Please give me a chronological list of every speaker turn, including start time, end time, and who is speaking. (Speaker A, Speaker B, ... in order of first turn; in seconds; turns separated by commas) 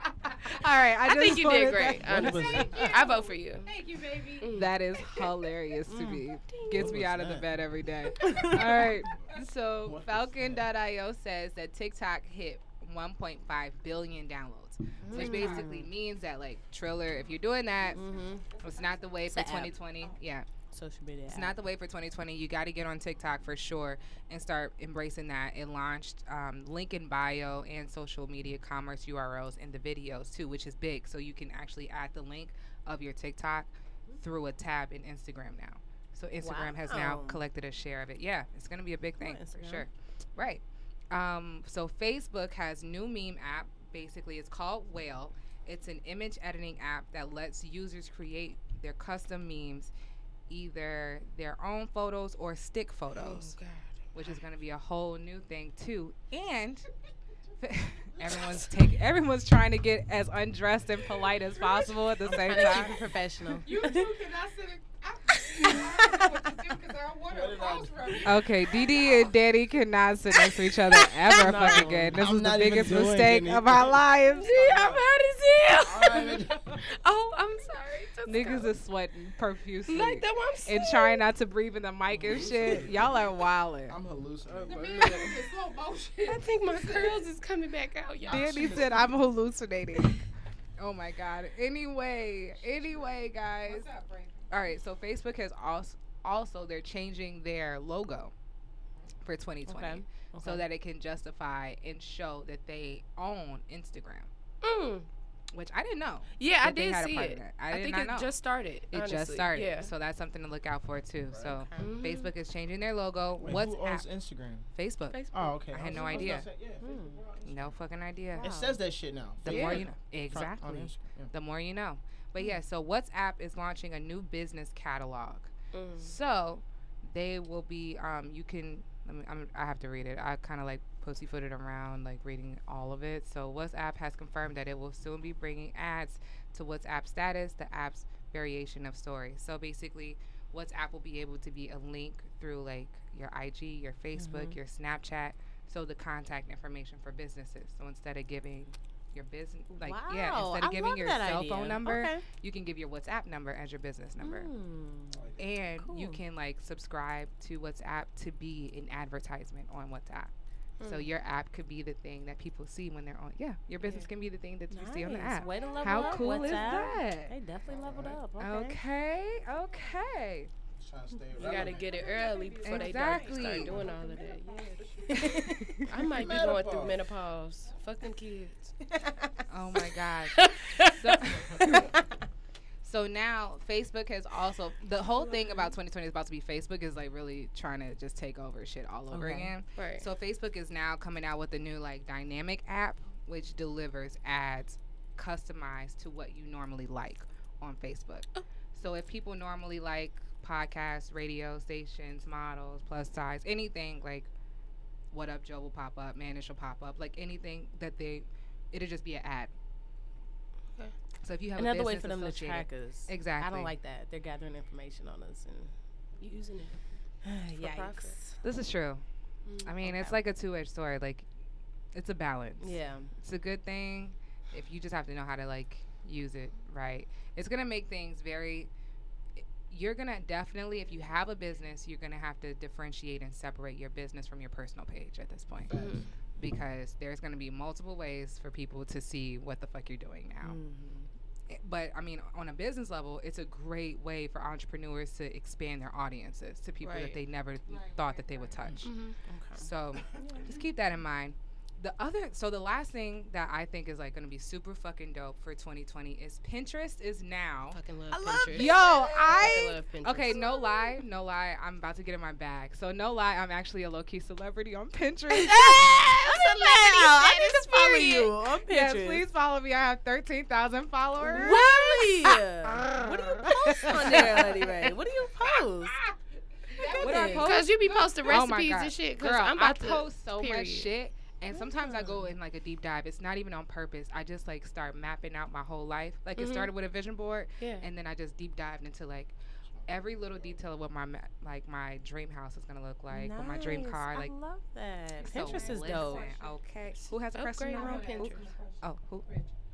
Speaker A: 0.4-2.4, Speaker B: 1.1-3.7, Speaker C: 2.0-2.7, Speaker D: 2.2-5.3, Speaker B: 4.4-4.7, Speaker A: 4.5-18.0, Speaker E: 5.9-6.2, Speaker B: 6.5-6.8, Speaker C: 6.8-7.5, Speaker E: 8.2-8.9, Speaker C: 9.8-10.6, Speaker E: 15.0-15.9, Speaker D: 15.1-15.7, Speaker D: 17.9-19.1, Speaker E: 17.9-18.4, Speaker A: 18.6-20.5, Speaker E: 19.3-19.7, Speaker E: 20.7-21.6, Speaker A: 21.3-49.9, Speaker E: 36.4-37.4, Speaker E: 39.2-39.9, Speaker A: 50.5-53.6, Speaker B: 53.1-54.3, Speaker A: 54.1-56.9, Speaker A: 57.6-63.0, Speaker E: 62.3-64.1, Speaker D: 63.6-69.3, Speaker E: 65.6-66.7, Speaker C: 67.3-68.3, Speaker A: 68.2-74.6, Speaker E: 71.3-72.2, Speaker C: 72.2-75.1, Speaker B: 74.3-78.7, Speaker C: 75.8-76.7, Speaker A: 78.2-84.0, Speaker B: 79.9-81.2, Speaker C: 82.1-83.2, Speaker C: 83.9-85.3, Speaker D: 84.5-87.3, Speaker B: 84.9-85.4, Speaker B: 86.2-88.9, Speaker C: 88.2-89.1, Speaker A: 88.3-90.2, Speaker A: 90.8-93.9, Speaker D: 93.7-94.5, Speaker A: 94.5-98.3, Speaker A: 99.2-104.3, Speaker E: 99.7-100.6, Speaker B: 104.6-105.1, Speaker A: 105.5-108.3, Speaker B: 106.4-109.9, Speaker A: 108.9-114.1, Speaker C: 111.3-111.7, Speaker E: 111.5-112.0, Speaker B: 111.8-112.3, Speaker C: 113.4-114.7, Speaker A: 114.8-116.5, Speaker B: 115.1-116.3, Speaker C: 115.3-117.8, Speaker E: 116.8-117.2, Speaker A: 117.5-118.5, Speaker E: 118.4-118.8, Speaker C: 118.4-121.3, Speaker A: 119.4-154.5, Speaker B: 119.5-119.8, Speaker B: 125.7-126.2, Speaker E: 144.2-144.6, Speaker E: 149.7-152.2, Speaker E: 154.2-155.2, Speaker C: 155.1-155.5, Speaker A: 155.4-160.3, Speaker E: 155.8-156.2, Speaker B: 160.8-161.1, Speaker A: 160.8-167.3, Speaker B: 163.8-164.1, Speaker E: 164.7-168.8, Speaker D: 165.6-166.7, Speaker C: 167.7-168.2, Speaker A: 168.4-170.5, Speaker C: 170.8-172.1, Speaker B: 171.4-175.3, Speaker D: 171.4-175.5, Speaker A: 172.6-173.8, Speaker E: 175.1-176.1, Speaker B: 175.9-178.8, Speaker C: 176.1-177.1, Speaker A: 179.5-181.9, Speaker B: 180.3-180.9, Speaker E: 181.6-181.9, Speaker A: 182.8-204.3, Speaker E: 189.1-189.5, Speaker B: 189.8-190.1, Speaker A: 205.1-209.5, Speaker A: 211.2-213.7, Speaker E: 211.6-215.7, Speaker B: 216.2-216.8, Speaker E: 217.2-218.4, Speaker B: 217.6-218.2, Speaker A: 218.4-219.0, Speaker B: 219.5-219.8, Speaker A: 219.6-221.3, Speaker E: 219.8-220.2, Speaker A: 221.9-228.7, Speaker E: 222.6-223.1, Speaker A: 229.7-235.8, Speaker C: 235.7-236.1, Speaker B: 235.7-236.1, Speaker A: 236.4-240.6, Speaker E: 240.4-241.1, Speaker A: 241.5-248.9, Speaker B: 246.8-247.2, Speaker D: 247.7-248.7, Speaker B: 248.8-249.2, Speaker E: 249.3-249.7, Speaker A: 249.6-257.8, Speaker B: 257.7-261.0, Speaker E: 258.1-259.4, Speaker A: 258.5-271.7, Speaker E: 265.3-269.2, Speaker E: 271.2-276.0, Speaker B: 271.6-271.9, Speaker A: 272.3-274.7, Speaker B: 273.7-274.5, Speaker D: 276.7-277.6, Speaker A: 276.8-294.3, Speaker E: 276.9-277.5, Speaker B: 277.0-280.9, Speaker E: 281.6-282.2, Speaker B: 286.4-286.7, Speaker B: 287.6-287.9, Speaker E: 293.1-296.3, Speaker D: 295.2-297.1, Speaker A: 295.2-299.3, Speaker B: 297.3-298.5, Speaker D: 297.7-299.5